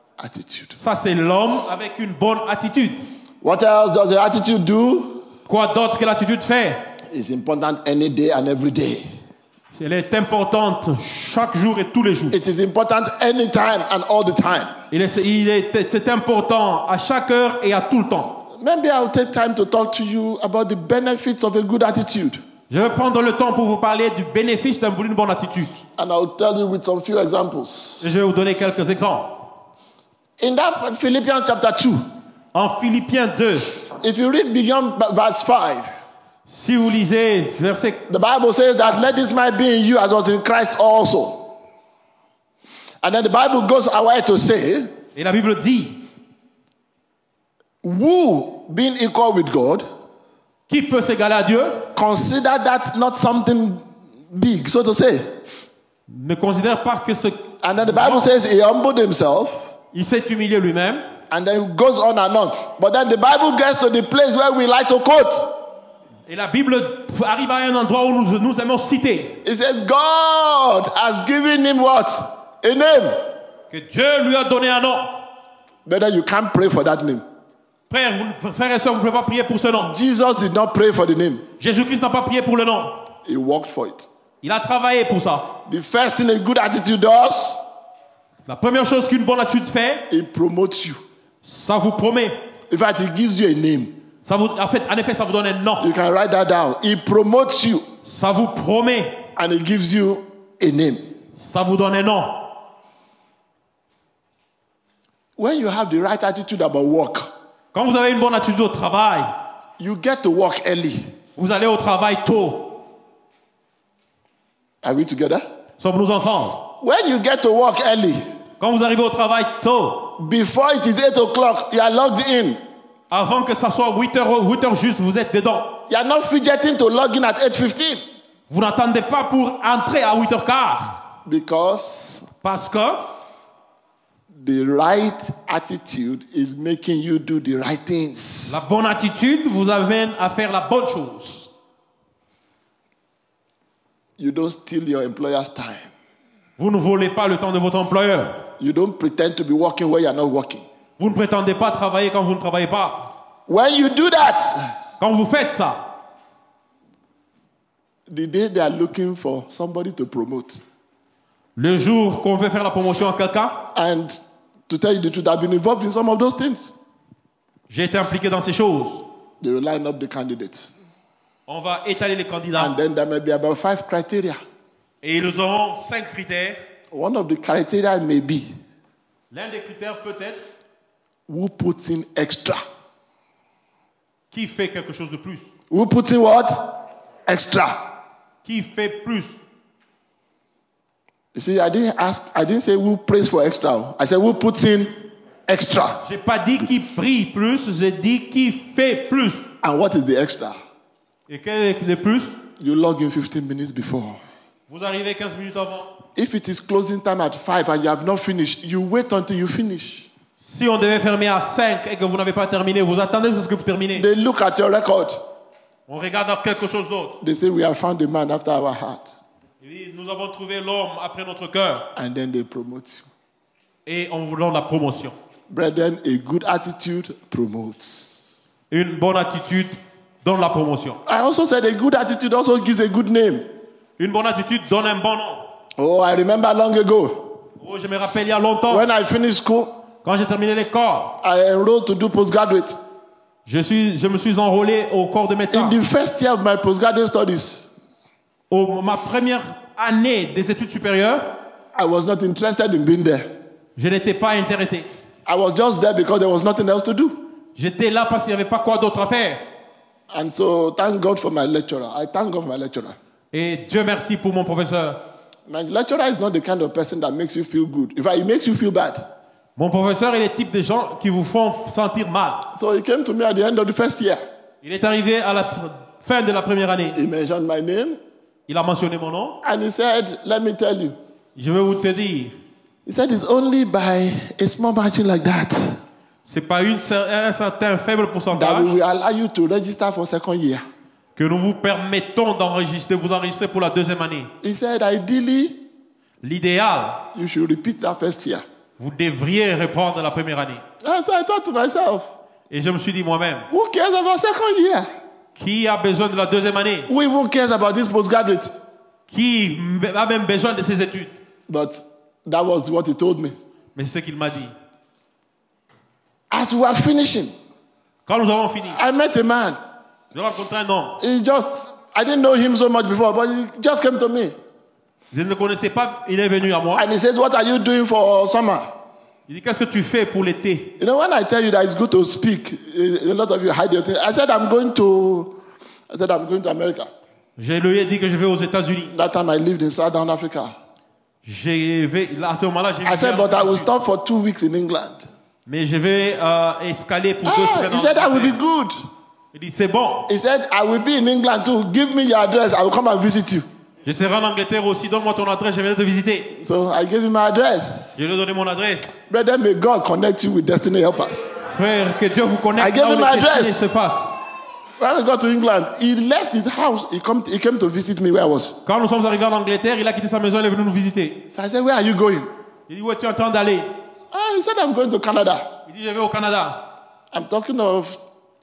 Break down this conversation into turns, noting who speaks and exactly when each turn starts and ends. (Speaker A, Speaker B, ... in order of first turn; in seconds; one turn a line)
Speaker A: 0.2-0.8
Speaker B: 0.8-3.0
Speaker A: 3.4-5.2
Speaker B: 5.5-6.8
Speaker A: 7.1-9.1
Speaker B: 9.7-12.4
Speaker A: 12.3-14.7
Speaker B: 14.9-18.4
Speaker A: 18.5-22.4
Speaker B: 22.7-25.8
Speaker A: 26.0-28.0
Speaker B: 28.0-29.4
Speaker A: 30.4-32.0
Speaker B: 32.5-33.7
Speaker A: 34.0-35.9
Speaker B: 36.5-38.0
Speaker A: 38.1-41.5
Speaker A: 43.0-44.9
Speaker B: 45.1-46.0
Speaker A: 47.8-49.8
Speaker B: 50.7-51.9
Speaker A: 51.9-55.4
Speaker B: 56.1-58.2
Speaker A: 57.6-59.7
Speaker B: 59.9-61.0
Speaker A: 61.3-65.5
Speaker B: 66.3-69.4
Speaker A: 69.4-73.2
Speaker B: 73.7-75.2
Speaker A: 75.8-77.2
Speaker B: 77.9-79.9
Speaker A: 79.8-81.4
Speaker B: 81.6-83.0
Speaker A: 83.2-84.1
Speaker B: 84.4-85.5
Speaker A: 85.7-87.6
Speaker B: 88.5-90.0
Speaker A: 90.1-91.0
Speaker B: 91.4-92.3
Speaker A: 92.7-94.0
Speaker B: 94.2-95.9
Speaker A: 95.8-97.8
Speaker B: 98.0-99.2
Speaker A: 99.3-101.1
Speaker B: 101.3-102.5
Speaker A: 105.4-107.3
Speaker B: 107.7-109.3
Speaker A: 109.8-111.1
Speaker B: 111.4-112.8
Speaker A: 114.8-115.4
Speaker B: 115.8-116.7
Speaker A: 116.8-118.2
Speaker B: 118.6-120.1
Speaker A: 120.2-122.6
Speaker B: 123.1-125.7
Speaker A: 125.9-128.0
Speaker B: 128.5-131.0
Speaker A: 131.2-132.3
Speaker B: 132.4-133.0
Speaker A: 134.3-138.6
Speaker B: 138.5-141.5
Speaker A: 144.2-145.9
Speaker B: 146.6-148.4
Speaker A: 148.6-150.6
Speaker B: 151.0-153.1
Speaker A: 153.5-154.6
Speaker B: 155.0-155.8
Speaker A: 158.1-160.6
Speaker B: 161.6-163.6
Speaker A: 163.7-166.8
Speaker B: 167.7-169.0
Speaker A: 169.4-170.7
Speaker B: 171.5-172.8
Speaker A: 172.6-174.4
Speaker B: 175.0-176.6
Speaker A: 176.9-178.5
Speaker B: 179.3-180.4
Speaker A: 181.3-182.6
Speaker B: 184.3-185.4
Speaker A: 185.7-186.7
Speaker A: 187.3-187.8
Speaker B: 188.4-189.3
Speaker A: 191.3-194.9
Speaker A: 195.5-196.0
Speaker B: 196.0-199.4
Speaker A: 199.6-200.6
Speaker B: 201.3-202.3
Speaker A: 202.6-204.2
Speaker B: 204.7-205.9
Speaker A: 206.2-210.1
Speaker B: 210.4-214.1
Speaker A: 213.9-215.2
Speaker B: 215.9-217.1
Speaker A: 217.2-219.2
Speaker B: 219.6-221.8
Speaker A: 221.9-223.1
Speaker B: 223.8-225.1
Speaker A: 225.5-228.3
Speaker B: 228.7-231.0
Speaker A: 231.1-233.5
Speaker B: 234.0-235.4
Speaker A: 235.8-237.3
Speaker B: 237.6-238.8
Speaker A: 238.7-239.7
Speaker B: 240.0-241.1
Speaker A: 241.2-242.8
Speaker B: 243.4-245.8
Speaker A: 245.5-247.7
Speaker B: 248.5-251.3
Speaker A: 251.7-253.3
Speaker B: 253.8-254.8
Speaker A: 255.3-257.2
Speaker B: 257.6-259.4
Speaker A: 260.1-262.9
Speaker B: 263.3-265.0
Speaker A: 265.5-269.1
Speaker B: 269.6-272.4
Speaker A: 272.5-274.2
Speaker B: 274.6-277.0
Speaker A: 276.9-278.0
Speaker B: 278.5-279.4
Speaker A: 279.4-281.0
Speaker B: 281.4-282.3
Speaker A: 282.9-285.8
Speaker B: 286.2-288.7
Speaker A: 288.3-290.6
Speaker B: 291.1-294.3
Speaker A: 294.4-295.6
Speaker B: 296.2-297.0
Speaker A: 297.1-298.4
Speaker B: 298.8-300.6
Speaker A: 300.8-302.1
Speaker B: 302.5-303.5
Speaker A: 303.5-304.9
Speaker B: 305.4-306.9
Speaker A: 306.9-308.6
Speaker B: 309.1-311.1
Speaker A: 311.5-313.3
Speaker B: 313.8-314.5
Speaker A: 316.3-317.3
Speaker B: 318.1-318.8
Speaker A: 318.7-319.6
Speaker B: 320.1-321.0
Speaker A: 321.0-324.3
Speaker B: 325.1-326.8
Speaker A: 326.8-328.7
Speaker B: 329.3-330.7
Speaker A: 330.8-335.4
Speaker A: 335.9-336.9
Speaker B: 337.4-338.9
Speaker A: 338.9-340.5
Speaker B: 341.2-343.7
Speaker A: 342.9-345.0
Speaker B: 345.4-348.4
Speaker A: 347.2-348.8
Speaker B: 349.3-350.1
Speaker A: 350.1-353.4
Speaker B: 353.8-356.3
Speaker A: 356.3-358.0
Speaker B: 358.0-359.0
Speaker A: 359.1-361.3
Speaker B: 361.5-364.2
Speaker A: 362.6-363.6
Speaker A: 364.8-368.6
Speaker B: 368.6-371.2
Speaker A: 371.3-372.3
Speaker B: 372.7-373.7
Speaker A: 374.1-375.5
Speaker B: 375.6-376.6
Speaker A: 377.1-378.0